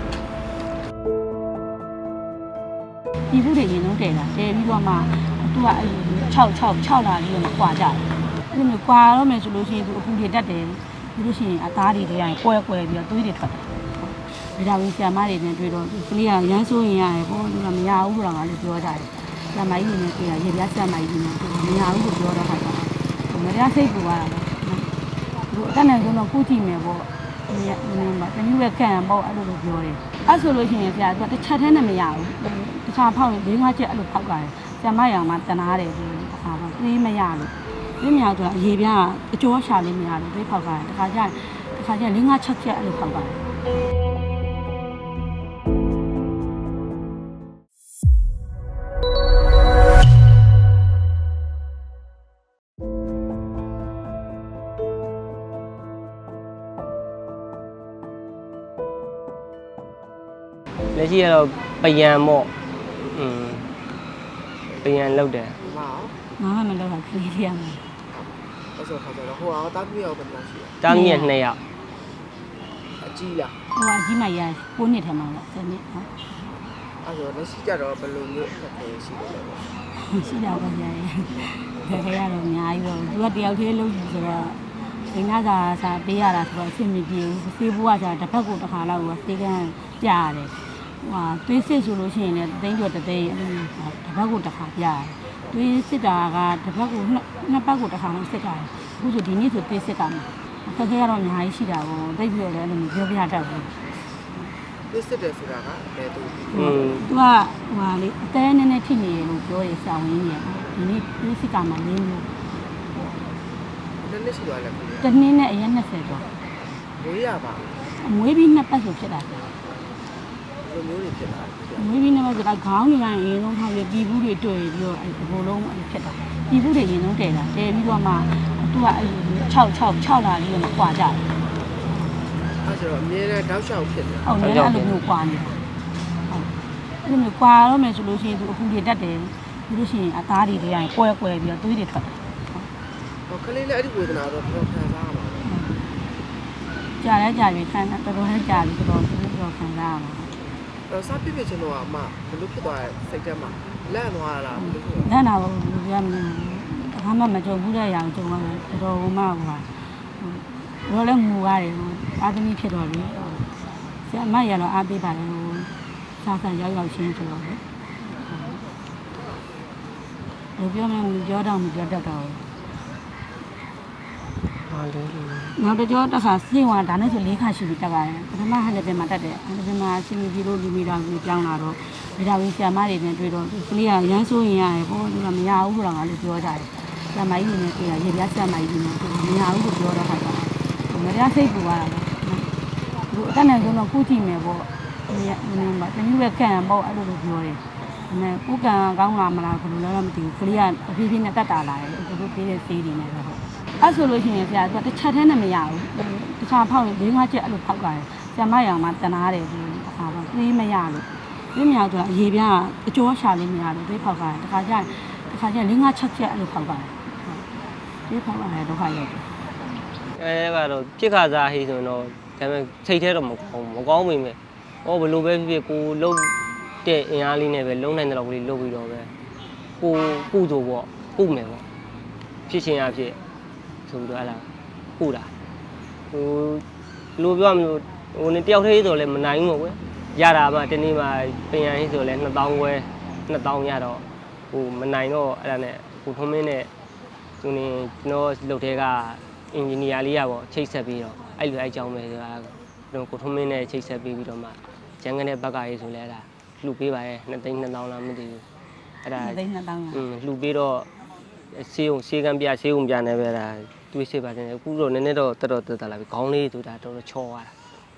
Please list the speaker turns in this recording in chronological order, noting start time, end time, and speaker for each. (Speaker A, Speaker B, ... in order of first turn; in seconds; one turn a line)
Speaker A: 3.3-24.9
Speaker A: 25.5-43.4
Speaker B: 60.9-62.5
Speaker B: 63.0-63.7
Speaker B: 64.8-65.6
Speaker C: 65.7-66.2
Speaker A: 66.4-67.8
Speaker C: 68.1-70.7
Speaker B: 70.8-71.6
Speaker A: 70.9-71.3
Speaker C: 73.0-73.5
Speaker A: 73.7-76.3
Speaker C: 77.0-79.6
Speaker A: 79.9-103.7
Speaker C: 104.9-106.5
Speaker A: 106.5-112.3
Speaker B: 106.6-107.1
Speaker C: 114.0-115.0
Speaker A: 115.0-116.3
Speaker C: 117.0-117.8
Speaker A: 117.9-119.5
Speaker C: 120.6-121.8
Speaker A: 121.8-131.2
Speaker C: 132.6-134.3
Speaker A: 134.2-135.7
Speaker B: 134.4-135.0
Speaker A: 137.0-142.7
Speaker C: 143.3-145.4
Speaker A: 145.4-145.8
Speaker A: 147.0-150.3
Speaker C: 150.9-155.1
Speaker A: 154.6-159.7
Speaker A: 160.2-163.5
Speaker A: 164.1-167.6
Speaker A: 168.3-168.6
Speaker A: 170.6-172.4
Speaker B: 174.7-175.6
Speaker A: 175.6-192.5
Speaker A: 193.1-217.4
Speaker A: 218.1-219.3
Speaker B: 220.1-226.3
Speaker B: 226.8-229.1
Speaker B: 229.8-231.6
Speaker B: 232.5-233.2
Speaker B: 233.9-234.5
Speaker B: 235.0-235.3
Speaker B: 236.1-236.6
Speaker B: 237.2-246.7
Speaker B: 247.4-258.4
Speaker B: 259.0-259.4
Speaker A: 259.2-260.0
Speaker B: 259.9-260.9
Speaker B: 261.5-267.5